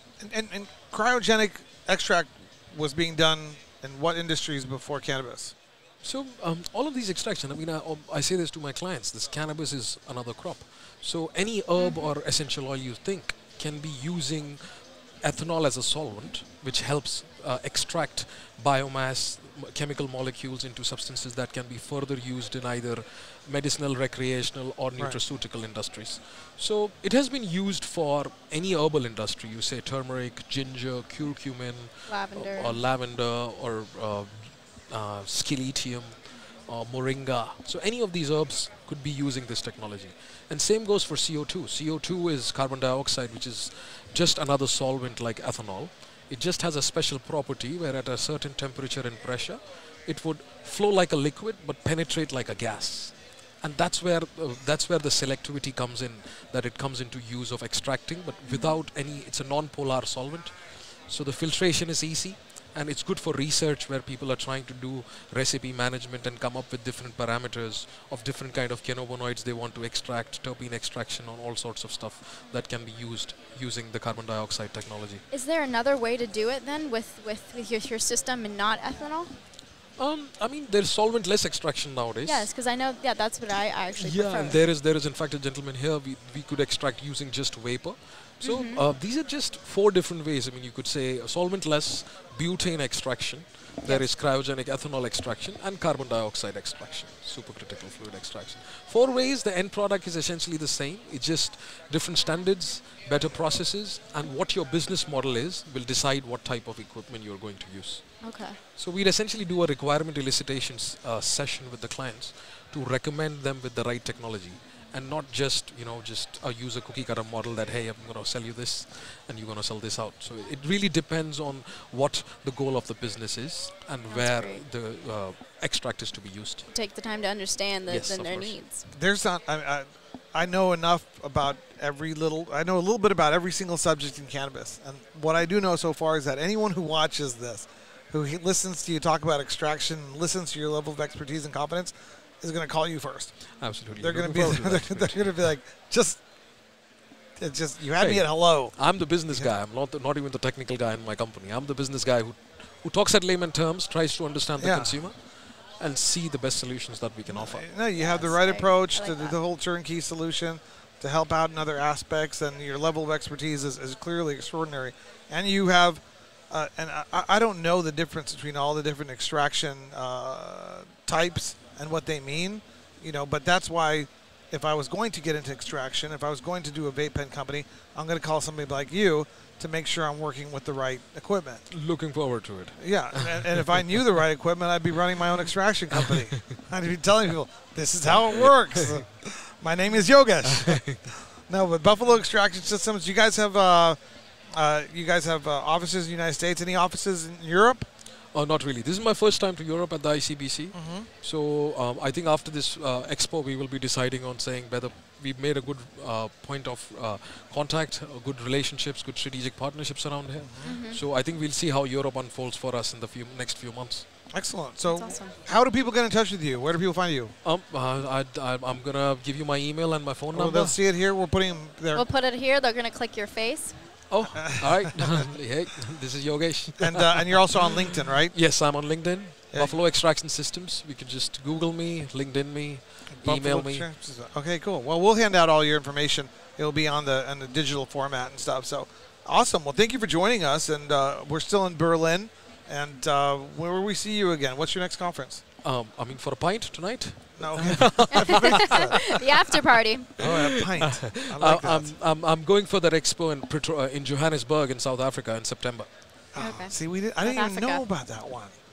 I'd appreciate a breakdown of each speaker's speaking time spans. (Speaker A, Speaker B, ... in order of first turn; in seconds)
Speaker A: 0.2-5.5, 128.9-146.2, 147.4-149.5, 154.6-155.1, 157.2-181.7, 182.8-197.9, 200.7-201.1, 210.4-210.8, 214.3-217.3, 220.3-222.1, 224.3-225.2, 226.8-228.6, 229.5-229.8, 233.1-245.4, 247.4-248.9, 250.1-251.9, 256.3-258.5
Speaker B: 6.0-75.2, 80.0-82.5, 84.0-126.7, 127.9-128.6, 143.5-145.4, 148.0-157.7, 181.7-183.8, 188.1-188.5, 190.6-191.0, 198.3-214.1, 217.4-220.8, 224.1-227.4, 228.3-233.9, 245.6-249.2, 250.8-255.9
Speaker C: 11.8-12.1, 32.1-32.8, 58.4-58.8, 75.3-79.4, 82.2-84.6, 88.4-88.8, 93.8-94.1, 108.2-108.6, 124.1-124.6, 126.7-128.9, 157.9-159.4, 210.6-211.0, 214.8-215.4, 221.9-223.9, 248.2-250.1, 256.4-257.9